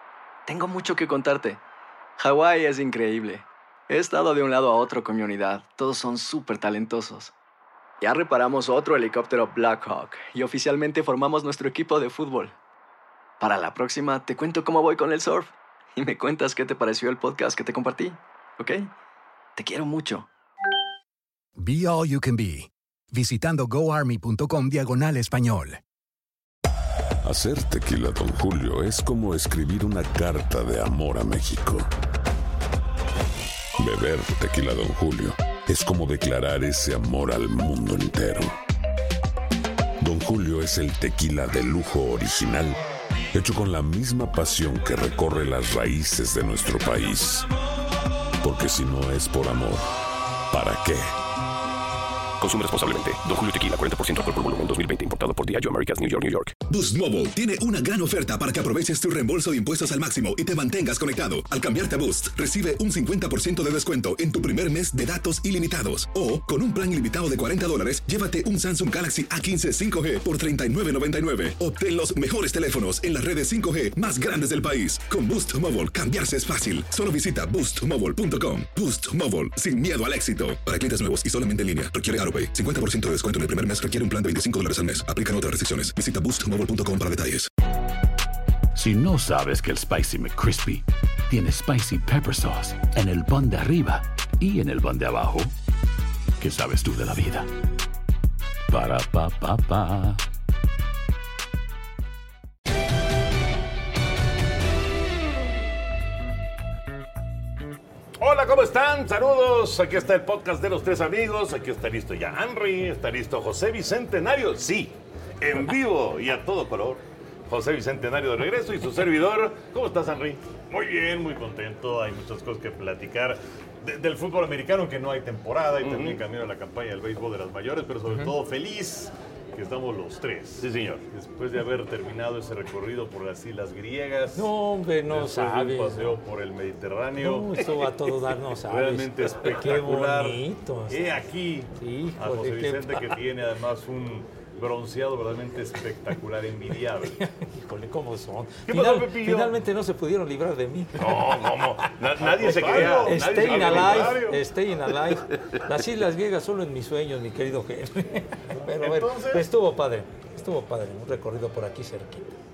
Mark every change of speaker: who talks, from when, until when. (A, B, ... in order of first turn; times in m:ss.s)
0:00.5-0:01.6 A
0:02.2-0:07.3 A
0:08.0-0:12.6 A
0:13.4-0:18.9 A
0:19.6-0:20.3 A
0:21.6-0:25.8 B
0:27.2-0:31.9 C
0:33.8-0:38.6 C
0:40.0-0:42.8 C
0:43.3-0:47.5 C
0:48.4-0:49.9 C
0:50.5-0:51.1 C
0:52.4-0:56.6 D
0:56.7-1:27.5 E
1:28.7-1:35.5 F
1:36.4-1:37.5 F
1:38.7-1:40.2 F
1:48.2-2:00.4 G
2:00.7-2:14.5 H
2:05.8-2:06.2 G
2:10.6-2:11.0 G
2:14.4-2:16.2 I
2:15.1-2:17.6 H
2:17.2-2:21.0 I
2:18.7-2:27.2 H
2:21.8-2:23.1 I
2:27.2-2:31.9 I
2:28.7-2:29.6 G
2:31.0-2:34.2 G
2:32.2-2:34.4 H
2:32.4-2:42.3 I
2:38.6-2:39.5 H